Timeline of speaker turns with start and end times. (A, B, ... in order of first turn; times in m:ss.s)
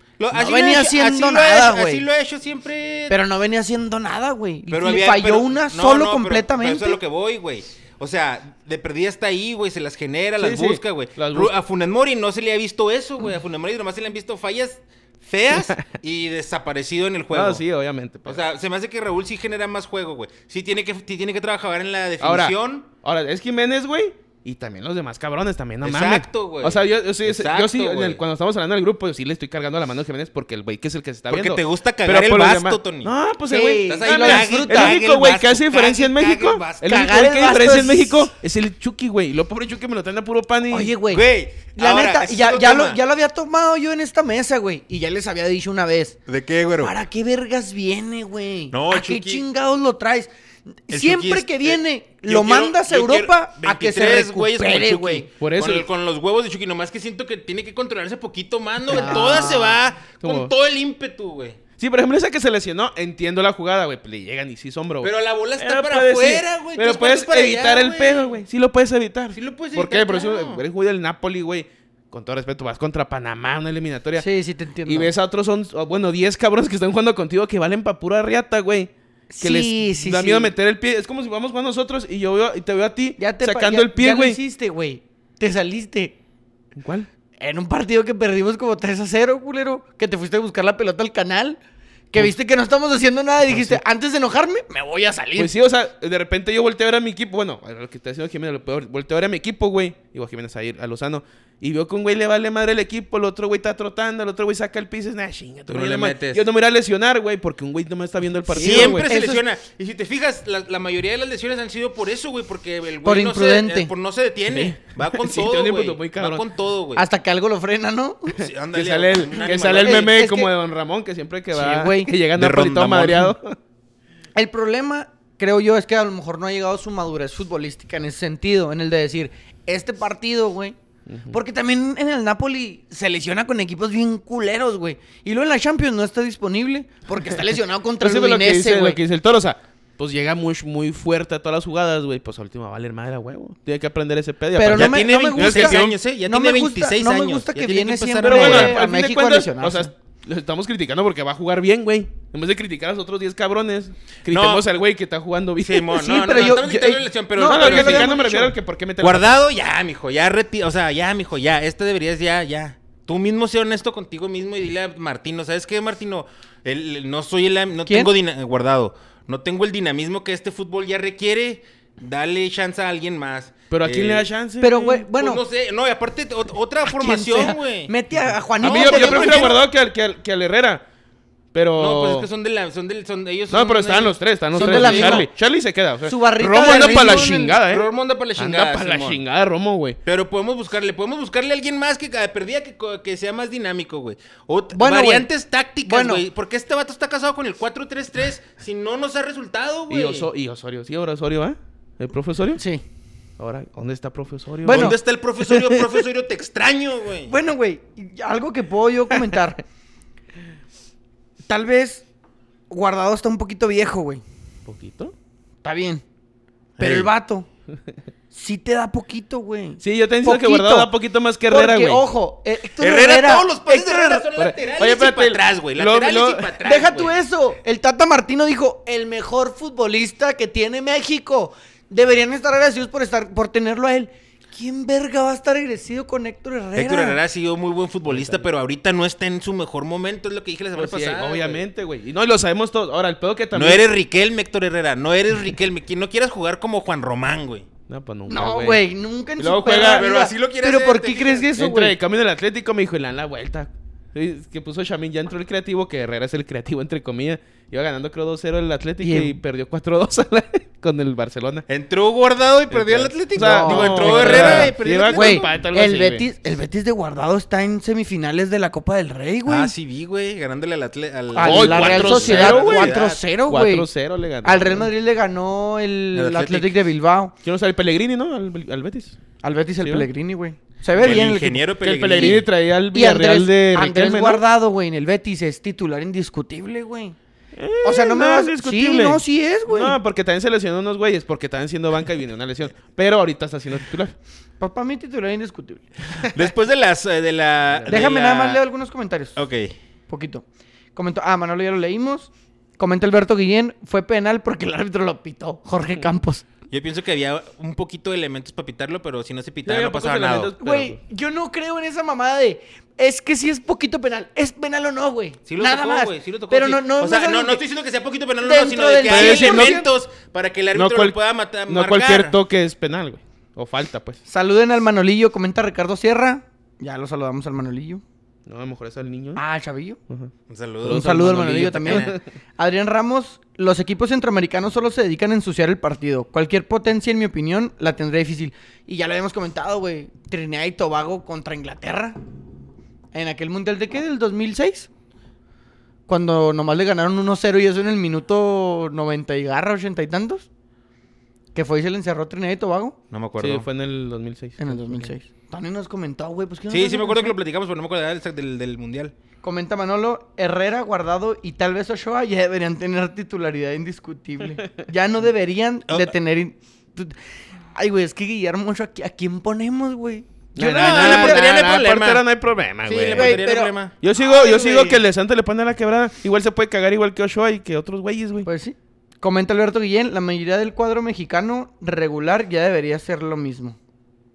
0:00.2-0:03.2 A
0:00.3-0:02.1 B
0:03.1-0:07.0 B
0:04.7-0:17.6 A
0:10.4-0:11.5 C
0:15.5-0:15.9 C
0:17.3-0:18.4 C
0:18.3-0:22.9 A
0:22.2-0:40.9 C
0:25.8-0:28.2 A
0:31.3-0:33.1 A
0:33.5-0:35.0 B
0:33.9-0:37.1 A
0:36.8-0:38.3 B
0:40.7-0:46.2 B
0:41.1-0:43.0 A
0:46.3-0:46.9 A
0:46.8-0:50.3 B
0:48.7-0:49.4 A
0:50.9-0:55.3 B
0:50.9-1:01.6 A
0:55.4-0:55.9 C
0:58.9-1:00.5 C
0:58.9-0:59.6 B
1:01.8-1:14.3 C
1:05.0-1:08.3 A
1:09.3-1:10.6 A
1:14.2-1:15.1 B
1:14.8-1:24.4 C
1:19.3-1:20.5 B
1:23.2-1:26.2 B
1:26.8-1:27.1 C
1:27.4-1:31.6 B
1:32.1-1:35.5 B
1:33.5-1:33.8 C
1:35.4-1:49.1 C
1:45.7-1:46.5 A
1:48.5-1:49.4 B
1:48.5-1:57.0 A
1:53.0-1:53.9 B
1:54.5-1:56.4 C
1:57.0-1:58.4 B
1:58.4-2:00.1 A
1:58.7-2:03.6 C
1:59.6-2:00.5 B
2:01.5-2:02.2 B
2:02.3-2:03.3 A
2:04.4-2:10.8 B
2:11.1-2:11.4 C
2:11.3-2:19.0 B
2:18.0-2:26.0 C
2:24.6-2:29.9 B
2:24.7-2:28.8 A
2:28.2-2:36.7 C
2:34.3-2:34.7 A
2:35.6-2:38.1 A
2:35.9-2:38.5 B
2:37.4-2:39.4 C
2:39.0-2:54.3 A
2:53.7-2:55.1 C
2:54.6-2:55.4 B
2:55.1-2:57.9 A
2:56.9-2:59.6 B
2:58.6-2:59.6 A
2:58.6-3:00.8 C
3:01.5-3:02.3 C
3:01.8-3:05.3 A
3:03.5-3:10.0 C
3:04.6-3:05.3 B
3:06.1-3:07.6 B
3:06.6-3:09.2 A
3:10.0-3:20.3 A
3:14.8-3:15.3 B
3:15.8-3:16.2 B
3:19.9-3:22.6 C
3:22.6-3:22.8 B
3:23.4-3:25.0 C
3:24.6-3:25.0 B
3:24.7-3:27.4 A
3:25.5-3:25.8 B
3:27.3-3:29.6 B
3:31.5-3:32.0 B
3:32.7-3:34.2 B
3:34.7-3:35.1 C
3:35.6-3:36.0 B
3:36.8-3:37.1 A
3:36.8-3:37.5 B
3:38.3-3:40.9 B
3:39.8-3:42.1 C
3:41.5-3:44.3 B
3:42.8-3:47.1 A
3:44.4-3:46.9 C
3:46.6-3:57.2 B
3:56.8-4:01.6 A
3:58.1-3:58.5 C
4:00.8-4:03.9 C
4:03.5-4:07.7 A
4:07.9-4:08.8 C
4:08.3-4:12.0 B
4:09.4-4:10.1 C
4:09.7-4:11.5 A
4:11.6-4:21.7 C
4:19.0-4:19.4 B
4:21.7-4:25.5 A
4:22.7-4:26.2 C
4:23.4-4:29.7 B
4:29.5-4:33.2 A
4:31.3-4:33.9 B
4:31.4-4:34.9 C
4:34.4-4:37.3 B
4:36.1-4:36.8 A
4:37.4-4:39.2 C
4:39.4-4:42.4 B
4:39.8-4:40.1 C
4:41.0-4:42.5 A
4:41.8-4:44.4 C
4:42.9-4:47.2 B
4:47.6-4:54.2 C
4:47.8-4:50.0 B
4:54.6-4:55.9 B
4:56.3-4:58.6 A
4:57.7-4:58.1 C
4:57.9-4:59.4 B
4:59.4-4:59.7 A
5:00.1-5:06.4 B
5:06.7-5:10.5 A
5:09.6-5:11.0 C
5:10.6-5:17.6 B
5:15.5-5:22.4 A
5:18.4-5:19.9 B
5:19.1-5:19.8 C
5:20.8-5:21.2 C
5:21.7-5:24.2 C
5:24.3-5:28.0 B
5:28.5-5:29.4 C
5:29.4-5:30.0 B
5:30.1-5:32.2 C
5:30.5-5:32.2 A
5:30.9-5:42.2 B
5:43.1-5:44.9 B
5:46.1-5:50.5 B
5:51.5-5:53.0 B
5:53.1-5:53.7 A
5:53.4-5:55.1 C
5:54.6-5:57.3 B
5:56.7-5:59.1 A
5:59.4-6:07.2 B
6:07.8-6:11.4 B
6:10.6-6:13.4 C
6:10.7-6:12.2 A
6:12.9-6:14.5 A
6:12.9-6:15.0 B
6:14.0-6:18.5 C
6:18.4-6:23.8 B